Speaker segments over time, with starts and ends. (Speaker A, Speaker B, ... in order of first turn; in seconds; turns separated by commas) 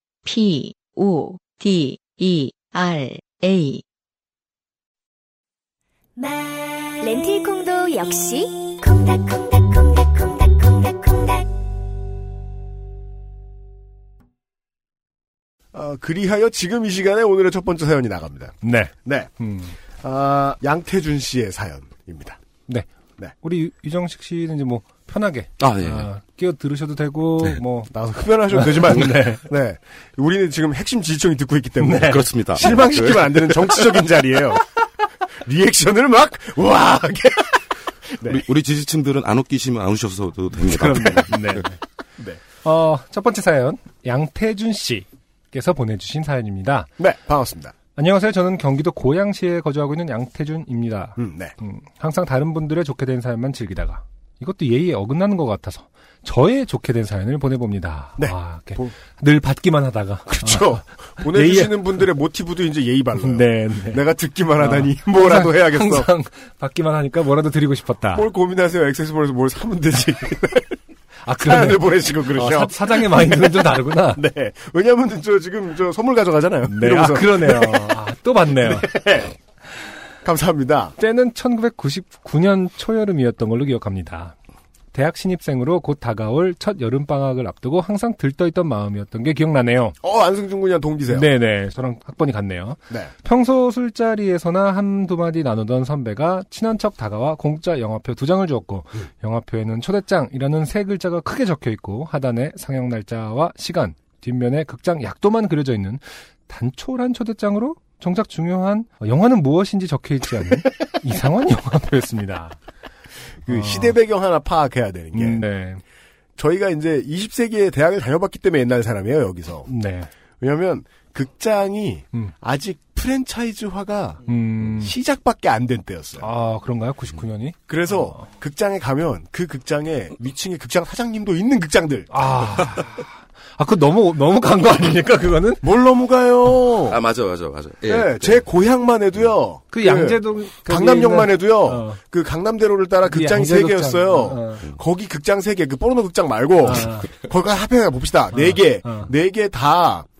Speaker A: 0.2-3.8, Speaker B: 7.0-11.4, Speaker A: 7.0-7.5, Speaker A: 8.8-11.0, Speaker C: 15.7-19.3, Speaker D: 18.6-19.7, Speaker C: 20.0-22.4, Speaker D: 22.7-27.9, Speaker E: 25.6-26.1, Speaker C: 27.9-34.7, Speaker D: 28.5-29.4, Speaker D: 31.8-32.3, Speaker E: 32.0-33.9, Speaker C: 35.4-38.4, Speaker E: 38.2-41.5, Speaker D: 40.6-41.8, Speaker D: 42.6-46.9, Speaker C: 47.0-47.7, Speaker D: 48.0-62.0, Speaker C: 51.2-51.5, Speaker C: 58.2-58.9, Speaker C: 60.4-66.1, Speaker D: 63.1-64.0, Speaker D: 64.5-68.3, Speaker C: 68.1-70.8, Speaker D: 71.2-74.2, Speaker C: 71.4-73.5, Speaker C: 74.1-78.0, Speaker D: 76.7-78.9, Speaker C: 78.6-79.3, Speaker C: 80.2-80.9, Speaker D: 81.0-84.3, Speaker D: 84.9-90.0, Speaker C: 90.0-91.3, Speaker D: 91.1-112.5, Speaker C: 113.4-115.4, Speaker D: 113.5-114.0, Speaker D: 115.1-115.8, Speaker C: 116.4-119.7, Speaker D: 119.7-120.1, Speaker C: 120.4-126.3, Speaker D: 124.2-124.9, Speaker D: 126.2-128.1, Speaker C: 127.7-132.2, Speaker D: 132.1-135.7, Speaker C: 135.6-137.0, Speaker E: 136.9-138.4, Speaker C: 137.8-150.1, Speaker D: 139.7-142.0, Speaker D: 143.0-144.7, Speaker D: 146.6-147.1, Speaker D: 148.3-149.1